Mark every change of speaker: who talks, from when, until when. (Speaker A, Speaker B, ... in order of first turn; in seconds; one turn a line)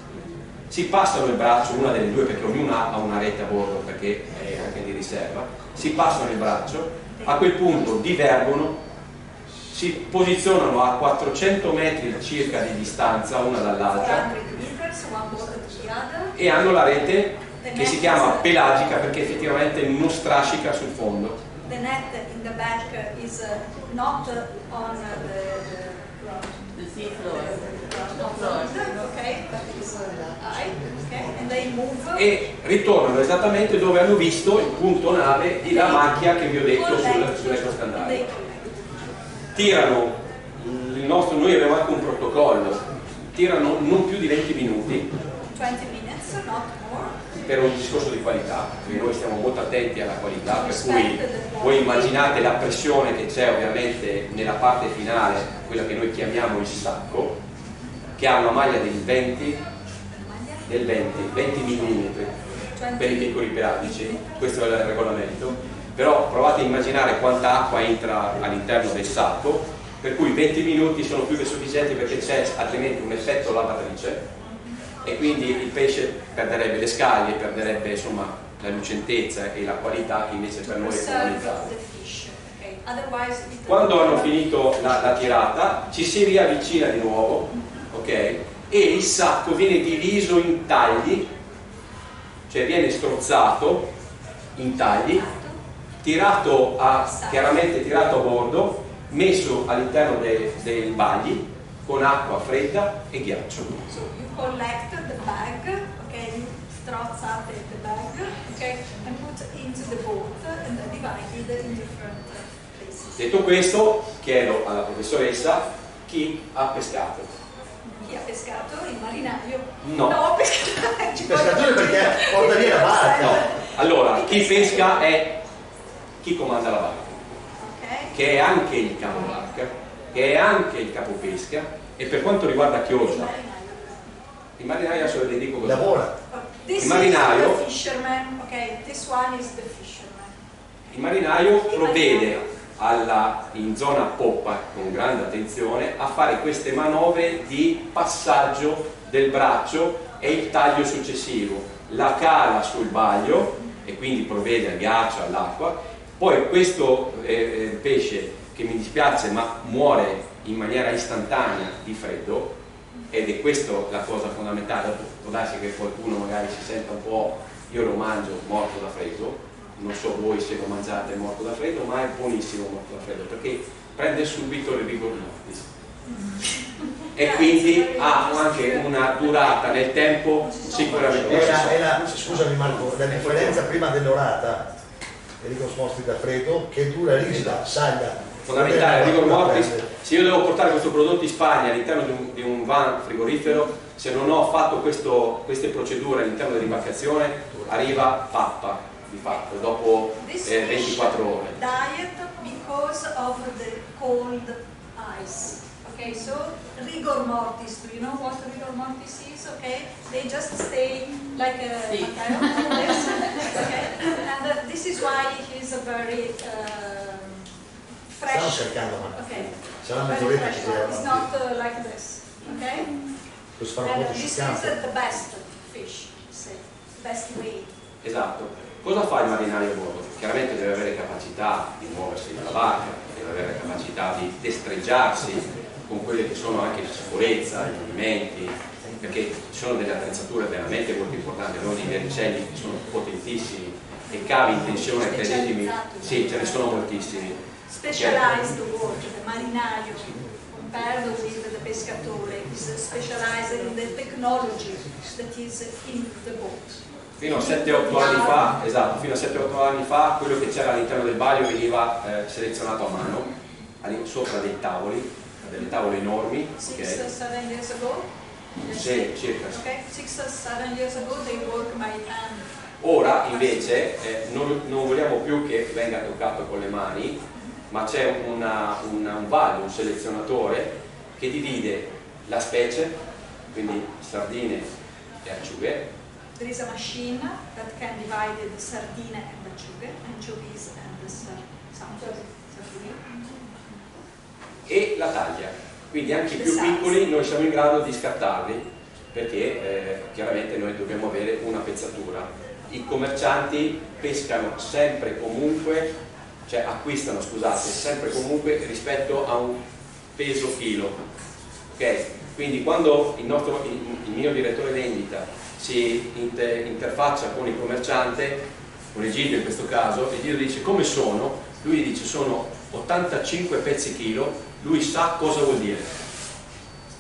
Speaker A: 0.7-8.8
Speaker B: 7.2-7.5
Speaker A: 9.7-14.3
Speaker B: 13.9-16.4
Speaker A: 16.4-21.4
Speaker B: 17.6-18.5
Speaker B: 21.7-32.3
Speaker A: 32.1-38.3
Speaker B: 35.6-36.1
Speaker B: 36.7-39.1
Speaker A: 39.6-45.1
Speaker B: 45.5-47.2
Speaker A: 47.5-57.4
Speaker B: 50.5-52.5
Speaker A: 58.2-59.6
Speaker B: 60.1-60.7
Speaker A: 60.7-62.4
Speaker B: 62.8-64.7
Speaker A: 63.0-74.3
Speaker A: 75.0-81.7
Speaker B: 80.6-85.5
Speaker A: 83.7-91.3
Speaker A: 92.5-93.9
Speaker A: 94.6-95.2
Speaker B: 95.1-95.6
Speaker A: 96.0-103.8
Speaker B: 97.1-97.6
Speaker B: 103.9-113.5
Speaker A: 113.2-117.3
Speaker B: 117.9-125.0
Speaker A: 119.8-120.2
Speaker C: 121.2-123.4
Speaker A: 123.2-125.4
Speaker A: 126.2-127.3
Speaker B: 127.6-128.2
Speaker A: 128.1-133.3
Speaker B: 133.0-134.2
Speaker A: 134.6-136.0
Speaker C: 135.6-136.1
Speaker B: 136.3-140.3
Speaker A: 136.8-137.6
Speaker A: 140.9-162.5
Speaker B: 141.7-142.5
Speaker A: 163.1-175.7
Speaker B: 176.1-176.4
Speaker B: 177.0-179.6
Speaker A: 177.2-183.6
Speaker B: 180.4-181.7
Speaker C: 181.1-184.7
Speaker C: 185.4-189.9
Speaker A: 188.4-201.6
Speaker B: 200.2-217.5
Speaker B: 218.1-223.0
Speaker C: 218.2-221.2
Speaker C: 223.6-224.8
Speaker B: 223.8-227.7
Speaker A: 228.0-247.4
Speaker B: 244.1-258.5
Speaker A: 247.9-248.3
Speaker A: 257.2-267.0
Speaker B: 266.6-268.1
Speaker B: 268.6-272.5
Speaker A: 268.7-269.6
Speaker A: 272.8-283.0
Speaker A: 283.5-284.7
Speaker A: 285.2-285.9
Speaker B: 286.4-293.2
Speaker A: 294.7-305.9
Speaker B: 296.4-297.0
Speaker A: 306.5-309.6
Speaker A: 310.2-311.0
Speaker A: 311.7-326.0